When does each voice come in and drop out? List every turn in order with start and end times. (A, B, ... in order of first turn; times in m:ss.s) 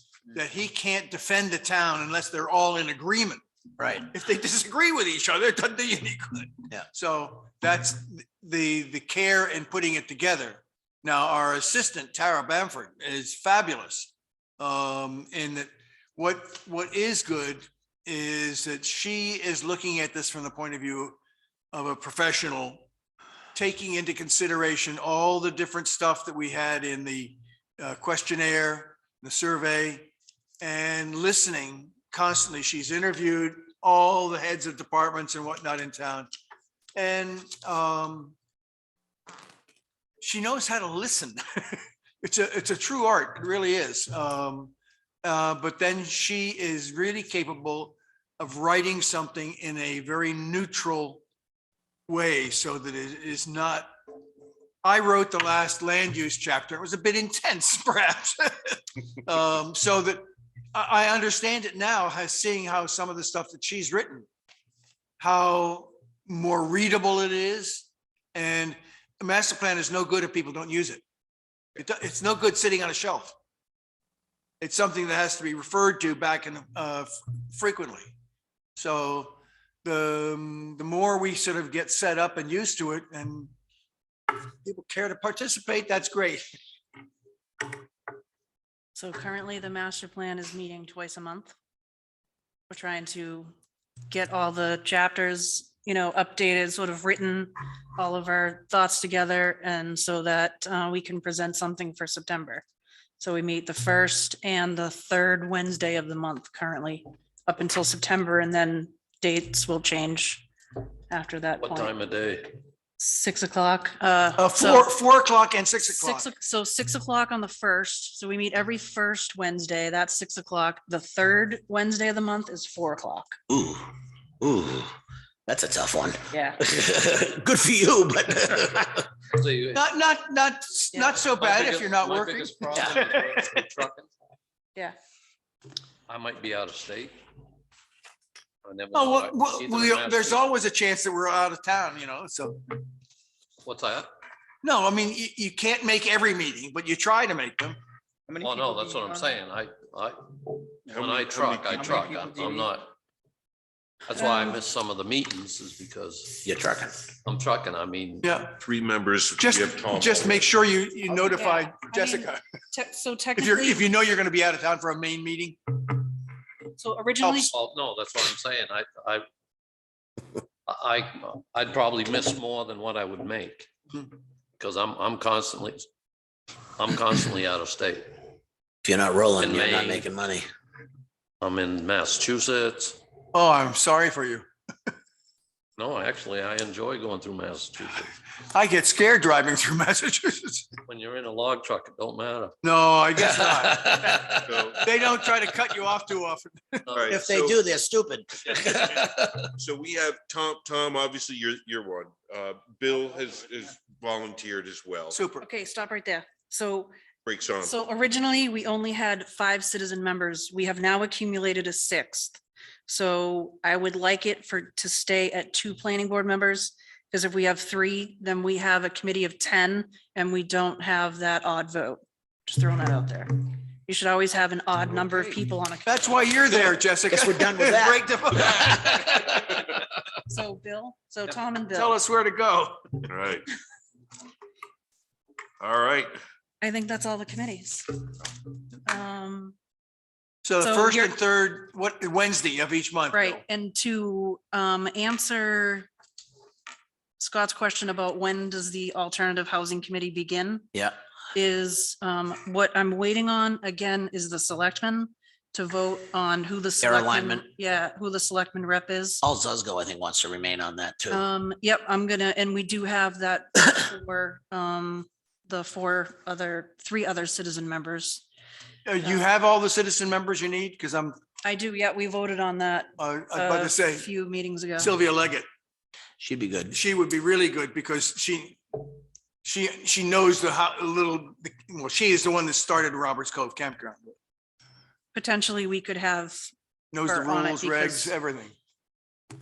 0:00.3-0:03.4 A
0:03.8-0:04.0 B
0:04.0-0:21.2 A
0:21.7-0:22.9 A
0:23.6-0:36.3 A
0:37.0-0:38.4 A
0:40.2-0:51.2 A
0:52.1-0:53.9 A
0:54.8-1:04.3 A
1:05.2-1:11.0 A
1:11.8-1:13.4 A
1:14.6-1:18.1 A
1:18.8-1:23.5 A
1:24.4-1:26.4 A
1:29.0-1:31.6 C
1:32.7-1:33.5 C
1:34.1-1:42.6 C
1:43.2-1:50.5 C
1:51.1-1:51.9 C
1:51.6-1:52.6 D
1:53.0-1:54.9 C
1:54.4-1:56.3 A
1:55.8-2:03.4 C
2:03.5-2:03.9 B
2:04.4-2:04.9 B
2:05.5-2:09.1 B
2:06.3-2:06.6 C
2:09.3-2:09.8 D
2:09.7-2:13.0 A
2:10.9-2:11.2 C
2:11.2-2:14.1 D
2:16.1-2:17.2 D
2:18.6-2:20.4 D
2:18.9-2:22.8 A
2:23.6-2:24.1 D
2:24.6-2:27.8 A
2:28.4-2:32.9 D
2:30.9-2:32.2 E
2:34.0-2:36.4 D
2:36.4-2:37.0 B
2:37.2-2:38.3 D
2:38.2-2:38.6 A
2:38.6-2:40.6 E
2:39.4-2:42.4 A
2:41.1-2:43.8 C
2:43.4-2:45.9 A
2:46.8-2:47.5 C
2:47.2-2:47.5 A
2:47.5-2:49.2 D
2:50.7-2:53.7 D
2:54.6-2:55.9 D
2:56.8-2:58.2 D
2:58.8-3:00.5 B
2:59.4-3:00.1 D
3:01.4-3:03.0 D
3:03.3-3:04.5 A
3:05.8-3:08.1 D
3:08.4-3:10.7 A
3:10.9-3:12.6 D
3:12.6-3:17.4 A
3:14.4-3:14.9 E
3:16.9-3:17.2 D
3:16.9-3:17.6 E
3:17.1-3:19.5 B
3:19.6-3:25.2 E
3:25.1-3:25.5 A
3:25.4-3:26.9 C
3:27.2-3:27.8 E
3:27.6-3:46.4 C
3:45.9-3:49.8 A
3:47.1-3:48.0 B
3:50.3-3:52.0 C
3:51.7-3:53.1 A
3:53.1-3:53.5 E
3:55.6-3:56.2 E
3:56.6-3:58.1 C
3:58.8-3:59.6 C
4:00.4-4:03.4 A
4:00.6-4:01.2 C
4:03.1-4:05.9 C
4:07.2-4:10.7 C
4:11.3-4:19.2 C
4:16.8-4:17.5 B
4:19.2-4:21.2 B
4:21.1-4:28.2 C
4:28.9-4:31.2 A
4:31.4-4:34.9 C
4:33.0-4:34.1 A
4:34.8-4:35.5 A
4:36.2-4:36.8 B
4:36.7-4:38.8 A
4:39.4-4:44.2 A
4:45.1-4:46.5 C
4:46.9-4:48.6 A
4:47.0-4:48.1 C